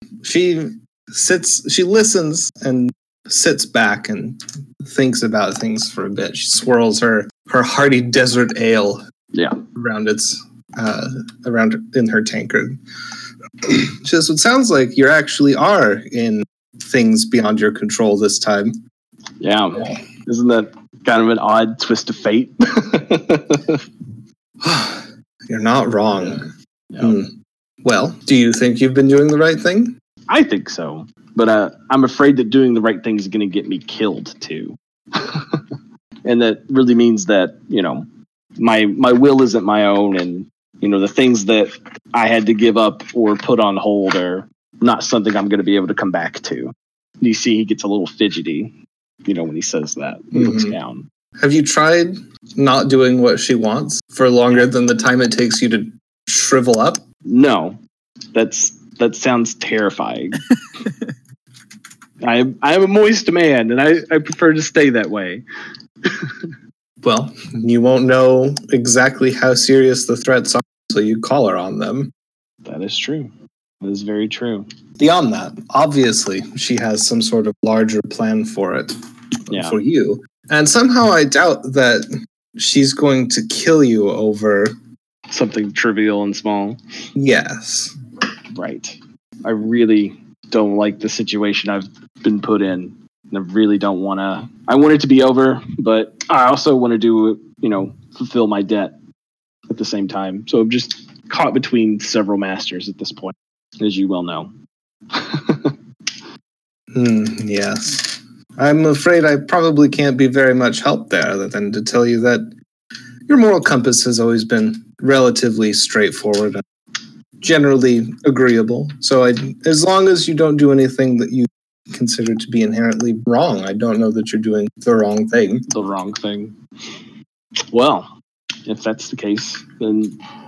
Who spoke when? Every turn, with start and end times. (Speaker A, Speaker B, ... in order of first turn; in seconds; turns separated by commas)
Speaker A: 0.2-9.0, Speaker B: 9.3-9.6, Speaker A: 9.7-12.8, Speaker A: 13.6-18.8, Speaker B: 19.4-23.8, Speaker A: 24.6-26.5, Speaker A: 27.0-27.3, Speaker A: 27.8-29.9, Speaker B: 30.3-35.6, Speaker B: 36.2-38.1, Speaker B: 38.6-48.7, Speaker B: 49.2-51.0, Speaker A: 50.3-50.8, Speaker A: 51.4-57.0, Speaker B: 57.2-57.8, Speaker B: 58.3-60.5, Speaker B: 62.2-65.4, Speaker B: 66.0-66.3, Speaker A: 67.0-72.1, Speaker B: 72.7-74.7, Speaker A: 75.0-84.8, Speaker B: 79.5-79.8, Speaker B: 85.3-86.8, Speaker A: 87.2-88.0, Speaker B: 88.5-99.0, Speaker B: 99.7-104.5, Speaker B: 105.1-105.7, Speaker A: 106.9-112.5, Speaker A: 113.3-116.6, Speaker A: 117.4-125.7, Speaker B: 125.7-126.6, Speaker B: 127.7-128.1, Speaker B: 128.7-130.2